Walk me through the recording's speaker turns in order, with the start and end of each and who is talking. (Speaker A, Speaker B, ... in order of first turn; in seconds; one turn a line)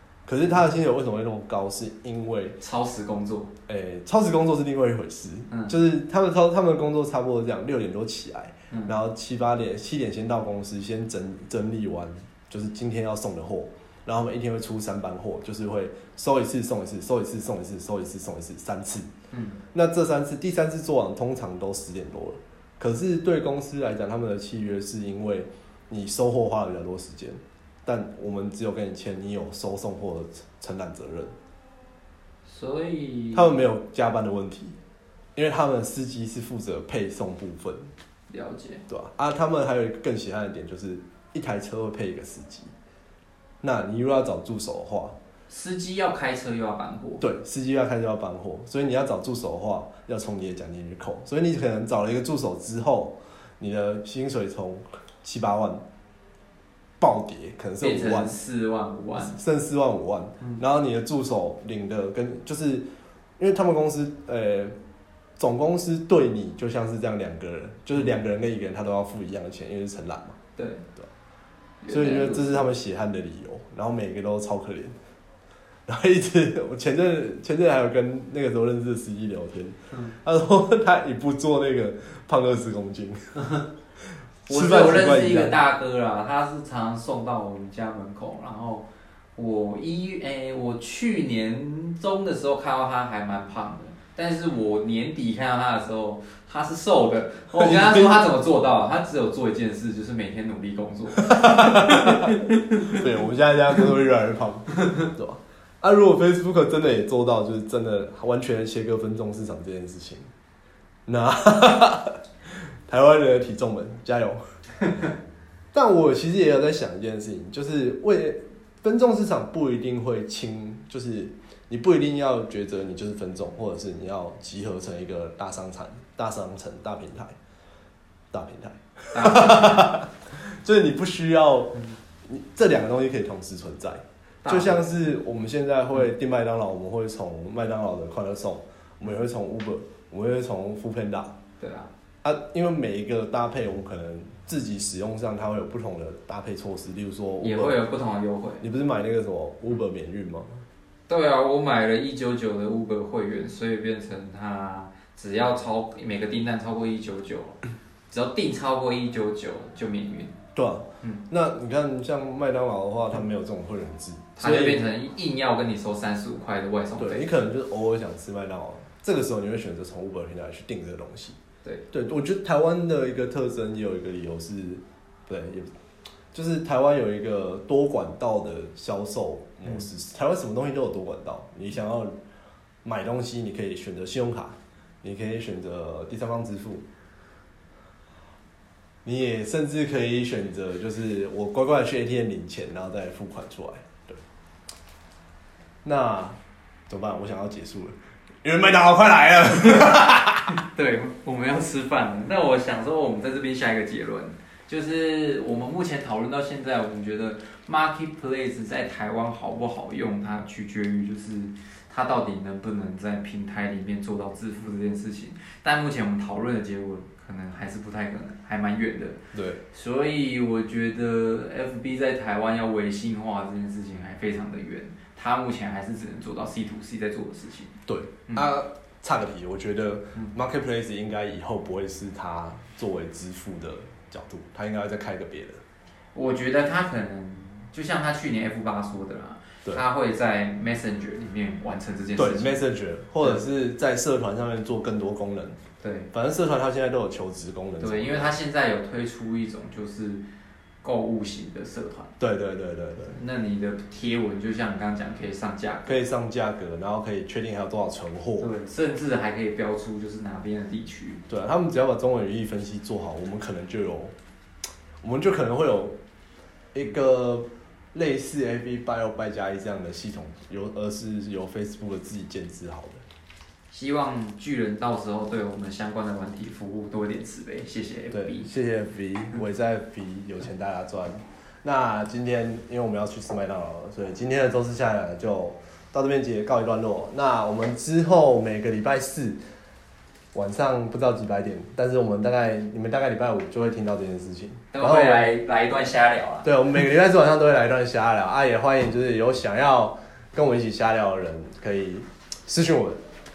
Speaker A: 0.3-2.6
Speaker B: 2.6-3.5
Speaker A: 3.7-19.1
Speaker B: 19.3-19.6
Speaker A: 19.7-31.3
Speaker B: 32.5-33.5
Speaker A: 33.3-34.8
Speaker A: 35.3-37.9
Speaker B: 38.3-38.8
Speaker A: 38.9-42.7
Speaker A: 43.6-45.1
Speaker B: 45.5-47.2
Speaker A: 47.2-55.8
Speaker A: 57.0-58.4
Speaker B: 57.8-59.4
Speaker A: 59.2-62.9
Speaker A: 63.4-64.7
Speaker A: 65.4-70.4
Speaker B: 70.5-70.8
Speaker B: 71.8-72.7
Speaker A: 71.9-74.9
Speaker A: 75.9-83.4
Speaker B: 79.9-80.2
Speaker B: 83.4-83.7
Speaker A: 84.5-85.6
Speaker B: 84.5-103.0
Speaker A: 97.5-98.3
Speaker A: 101.2-110.3
Speaker A: 111.1-112.2
Speaker A: 112.9-114.4
Speaker A: 115.7-127.3
Speaker A: 128.3-141.3
Speaker B: 129.1-129.9
Speaker B: 134.4-134.9
Speaker B: 141.6-141.9
Speaker A: 142.2-147.8
Speaker B: 147.4-148.6
Speaker A: 148.6-150.6
Speaker B: 151.1-157.6
Speaker B: 158.1-160.3
Speaker A: 160.5-164.8
Speaker B: 164.4-167.3
Speaker A: 166.9-171.3
Speaker A: 171.9-175.7
Speaker A: 176.3-182.1
Speaker A: 182.8-186.8
Speaker A: 189.0-194.2
Speaker A: 195.8-196.4
Speaker A: 196.9-200.5
Speaker B: 200.5-219.2
Speaker A: 219.3-219.6
Speaker B: 219.7-227.7
Speaker A: 227.9-235.6
Speaker B: 236.1-242.6
Speaker A: 242.2-245.6
Speaker B: 245.8-246.1
Speaker A: 246.1-248.3
Speaker B: 247.8-250.2
Speaker B: 250.8-252.1
Speaker A: 252.2-253.2
Speaker B: 253.1-256.0
Speaker A: 255.8-258.5
Speaker B: 258.4-261.2
Speaker A: 261.3-264.1
Speaker A: 265.0-266.0
Speaker A: 266.7-273.0
Speaker B: 273.7-278.5
Speaker A: 278.1-289.4
Speaker A: 290.3-295.3
Speaker B: 294.7-296.5
Speaker A: 296.4-303.0